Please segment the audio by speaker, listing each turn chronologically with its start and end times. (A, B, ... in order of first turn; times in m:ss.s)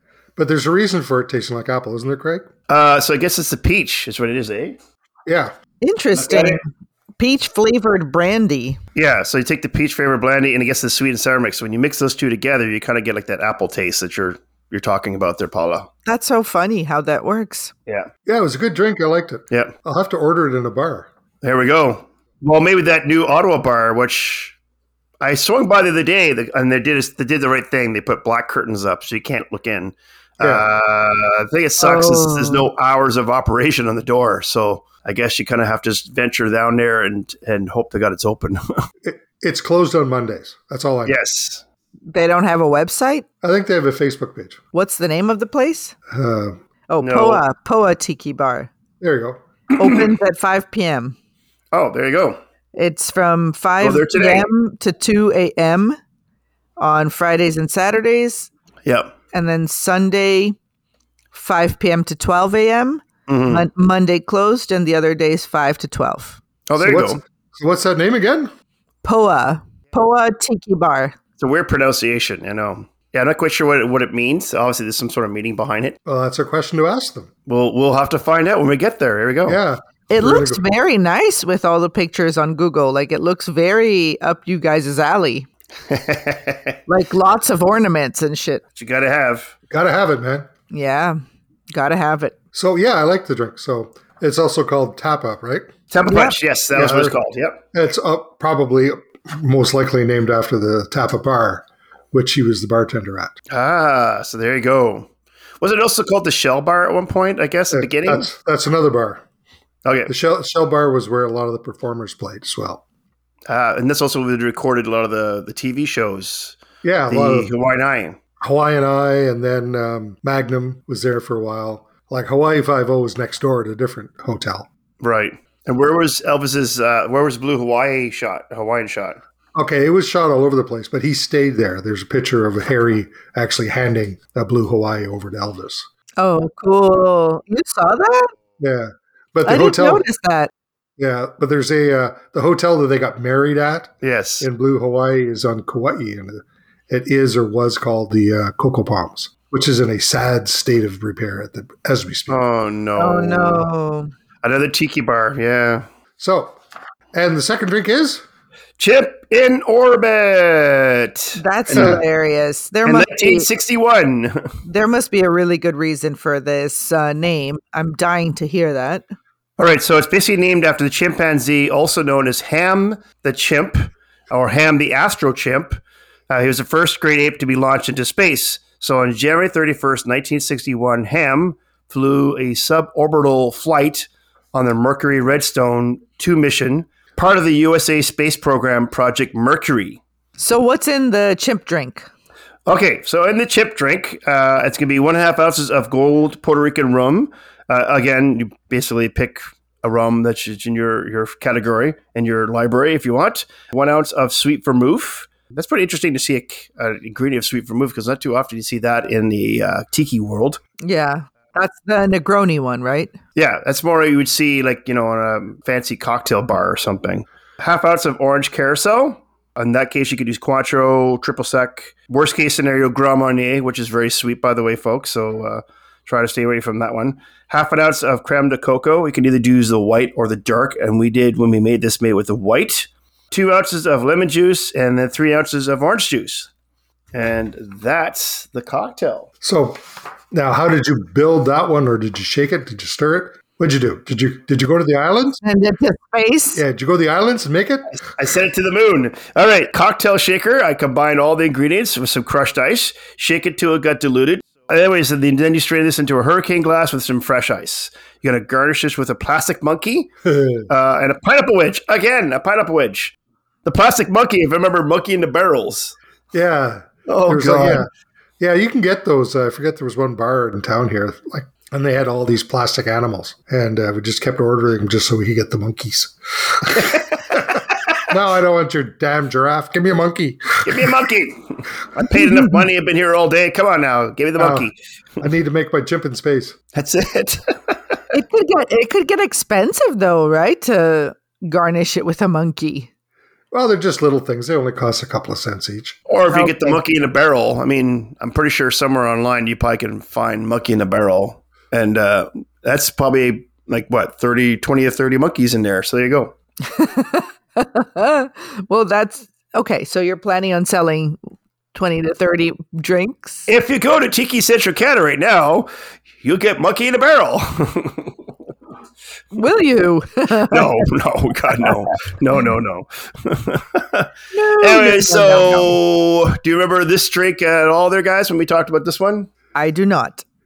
0:00.4-0:02.5 A
0:02.7-0:04.8 B
0:05.3-0:05.5 A
0:05.8-0:06.7 C
0:06.2-0:06.6 B
0:07.2-0:08.8 C
0:09.0-0:15.9 B
0:16.1-0:17.7 C
0:18.3-0:21.1 A
0:21.4-0:24.6 B
0:25.2-0:38.8 B
0:30.4-0:30.7 A
0:31.8-0:32.7 C
0:39.0-0:41.2 A
0:41.1-0:41.6 B
0:42.1-0:43.2 C
0:43.4-0:44.6 A
0:44.7-0:46.0 C
0:46.1-0:46.6 A
0:46.9-0:48.7 C
0:47.0-0:47.4 B
0:49.0-0:49.4 A
0:49.7-0:50.0 B
0:49.8-0:51.2 C
0:51.7-0:52.4 B
0:52.8-0:56.0 C
0:53.8-0:54.5 B
0:56.8-0:58.5 C
0:58.9-0:59.1 B
0:59.3-1:00.6 C
1:01.3-1:06.4 C
1:03.3-1:03.7 B
1:06.7-1:07.2 B
1:06.8-1:08.5 A
1:09.0-1:11.2 C
1:11.4-1:16.0 B
1:16.1-1:17.3 A
1:17.5-1:19.6 B
1:19.5-1:20.6 A
1:20.1-1:25.5 C
1:25.9-1:26.8 B
1:26.9-1:28.6 C
1:28.8-1:29.5 B
1:29.7-1:30.5 A
1:30.7-1:31.2 C
1:31.7-1:32.4 C
1:32.5-1:35.7 A
1:35.9-1:37.6 B
1:36.1-1:36.4 C
1:36.7-1:37.2 A
1:37.7-1:43.4 A
1:43.5-1:45.1 B
1:45.6-1:48.3 B
1:47.7-1:49.2 A
1:49.8-1:50.1 B
1:50.1-1:52.8 A
1:53.5-1:58.2 B
1:56.8-1:57.5 A
1:58.4-2:04.7 A
2:05.0-2:09.2 B
2:09.6-2:15.9 A
2:16.2-2:18.3 C
2:18.6-2:20.0 A
2:19.5-2:20.5 C
2:21.0-2:32.4 A
2:24.0-2:24.5 B
2:32.3-2:33.7 B
2:33.0-2:34.1 C
2:34.4-2:35.9 B
2:36.2-2:36.6 A
2:37.1-2:38.2 A
2:38.8-2:42.0 B
2:41.4-2:43.5 C
2:41.7-2:42.0 A
2:42.9-2:44.5 B
2:44.6-2:49.0 C
2:49.6-2:55.8 B
2:56.3-3:10.0 B
3:10.4-3:12.1 C
3:12.7-3:30.6 B
3:30.8-3:33.2 C
3:33.4-3:56.5 B
3:57.1-3:59.3 B
3:59.4-3:59.8 A
4:00.3-4:05.4 A
4:05.4-4:06.6 C
4:06.6-4:07.9 A
4:08.0-4:20.1 B
4:20.3-4:20.7 A
4:20.7-4:23.1 B
4:23.6-4:26.0 B
4:26.3-4:37.6 A
4:27.1-4:27.9 B
4:36.8-4:37.1 B
4:38.1-4:40.9 A
4:40.6-4:44.8 B
4:42.2-4:42.6 C
4:44.4-4:44.7 A
4:45.2-4:46.6 A
4:46.7-4:48.0 B
4:48.1-4:52.9 C
4:53.5-4:56.0 A
4:56.1-5:06.4 B
4:56.3-4:56.8 C
5:06.6-5:11.2 C
5:11.7-5:13.5 C
5:13.5-5:15.7 B
5:16.2-5:18.1 B
5:19.3-5:20.9 C
5:20.5-5:29.3 B
5:24.3-5:25.8 C
5:29.6-5:30.2 C